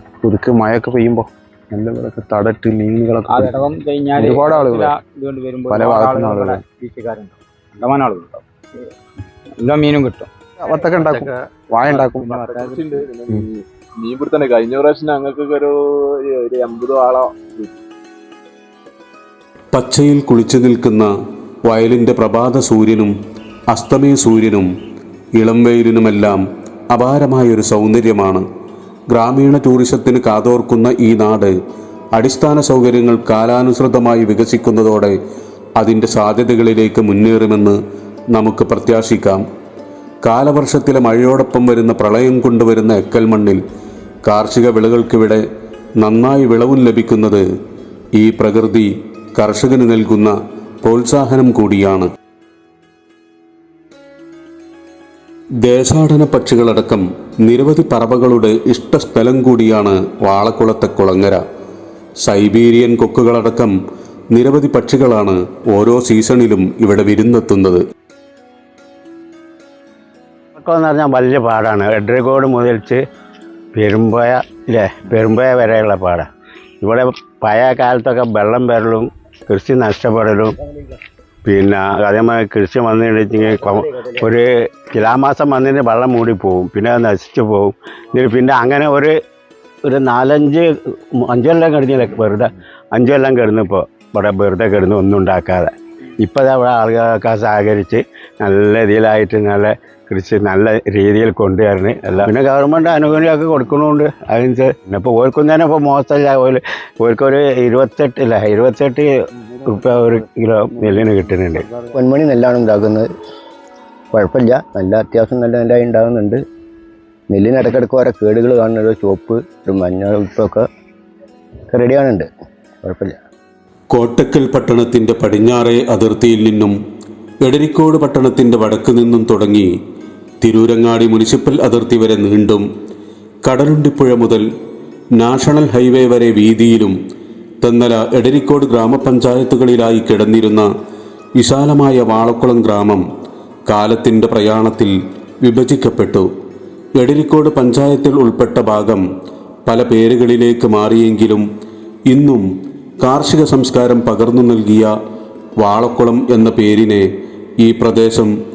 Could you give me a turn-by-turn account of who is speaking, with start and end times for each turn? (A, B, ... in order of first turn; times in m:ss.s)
0:00.2-0:03.4 A
0:03.3-0:08.4 B
0:04.2-0:04.9 A
0:05.7-0:06.6 A
0:09.6-0:10.3 B
0:10.7-0:12.3 A
0:10.9-0:11.3 B
0:11.8-0:12.9 B
0:12.3-0:17.8 C
0:19.7-0:21.1 D
0:21.6-0:23.1 D
0:23.7-0:24.7 D
0:25.4-0:28.4 D
0:29.1-0:31.5 D
0:32.1-0:35.2 D
0:35.8-0:37.8 D
0:38.3-0:39.4 D
0:40.2-0:43.6 D
0:44.2-0:45.4 D
0:46.0-0:47.4 D
0:48.2-0:52.1 D
0:55.6-1:01.4 D
1:02.2-1:03.7 D
1:04.3-1:07.8 D
1:10.6-1:13.0 E
1:13.8-1:16.3 E
1:16.8-1:20.5 E
1:21.4-1:29.1 E
1:29.8-1:35.7 E
1:36.2-1:49.1 E
1:49.6-1:51.7 E
1:51.9-1:53.1 F
1:54.1-1:56.4 F
1:57.3-2:00.6 F
2:01.7-2:02.3 F
2:02.8-2:03.2 F
2:03.9-2:06.8 D
2:07.4-2:09.7 D
2:10.4-2:12.7 D
2:13.4-2:14.4 D
2:15.2-2:17.0 D
2:17.6-2:20.7 D
2:21.4-2:23.0 D
2:23.7-2:26.3 D
2:27.0-2:29.0 D
2:29.7-2:31.4 D
2:32.1-2:32.4 D
2:33.0-2:34.9 D
2:35.6-2:37.1 D
2:37.6-2:38.3 D